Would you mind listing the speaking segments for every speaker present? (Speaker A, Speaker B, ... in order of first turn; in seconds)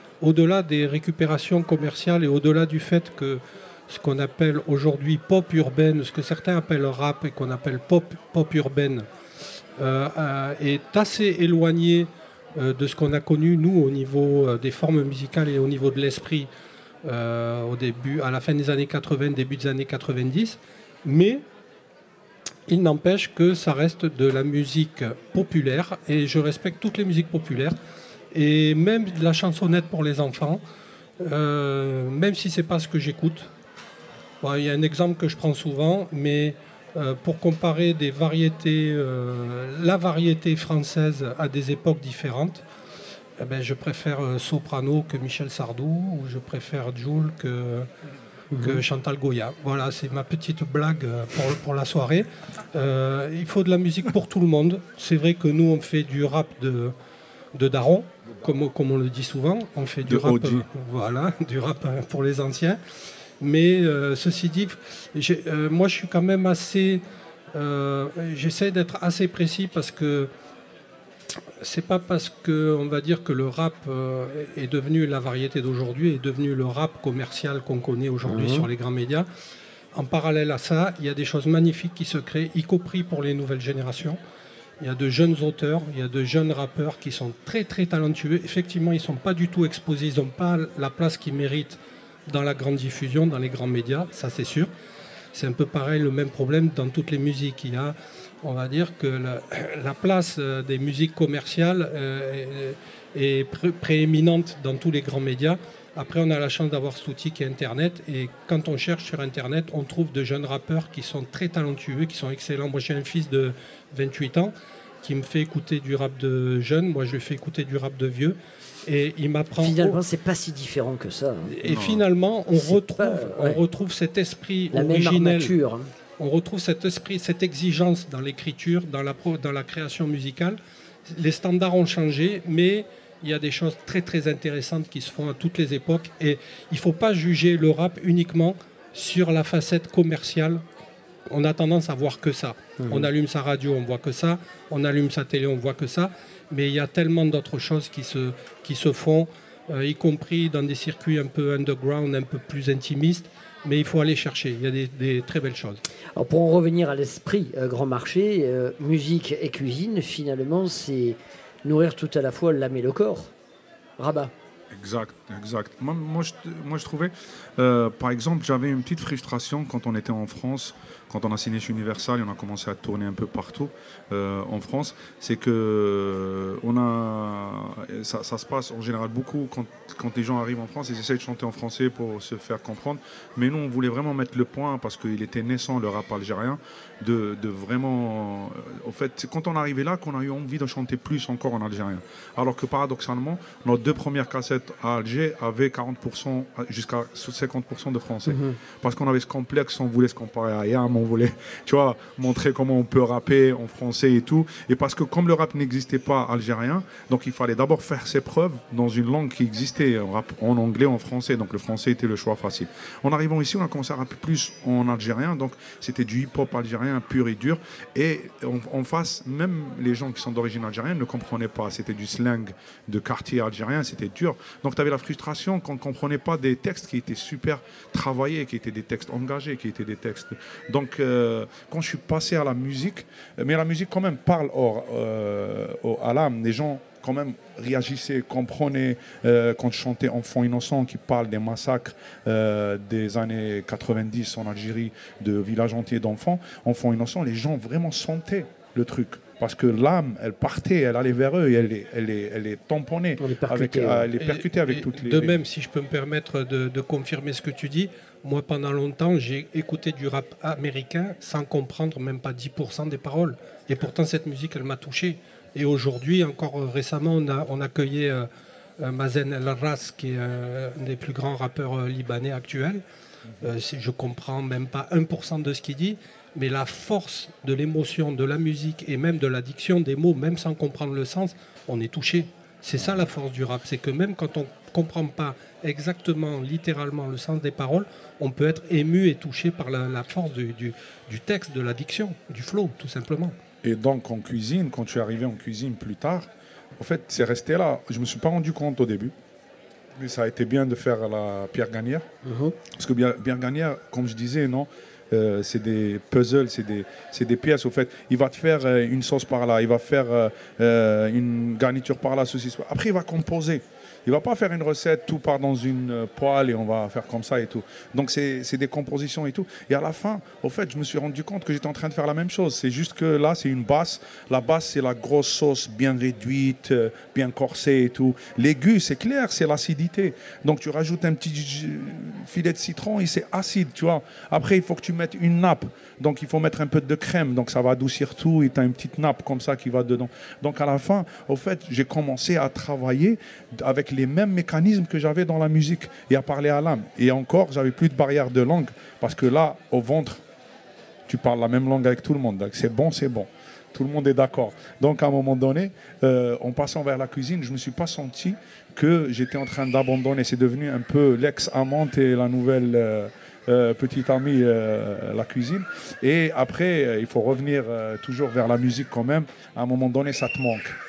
Speaker A: 0.2-9.1, 9.8-16.5, 17.0-21.4, 22.7-27.8, 28.3-30.6, 31.2-33.5, 34.4-42.6, 43.4-47.9, 48.5-56.9, 57.5-62.8, 63.4-67.0, 67.5-70.3, 71.6-79.3, 79.9-84.2, 84.8-94.7, 95.3-120.0, 121.5-125.5, 126.2-140.6, 141.3-155.8, 254.2-268.3, 268.8-272.8, 273.4-293.4
Speaker B: 48.5-48.8, 78.2-78.7, 119.5-121.6, 122.5-123.6, 124.7-125.9, 142.8-143.1, 156.1-163.3, 164.0-164.3, 198.2-198.6, 253.2-254.1, 302.2-302.6
Speaker C: 60.0-60.6, 121.6-122.0, 164.7-255.4, 293.6-299.1, 299.9-302.1, 302.7-350.2, 351.1-370.7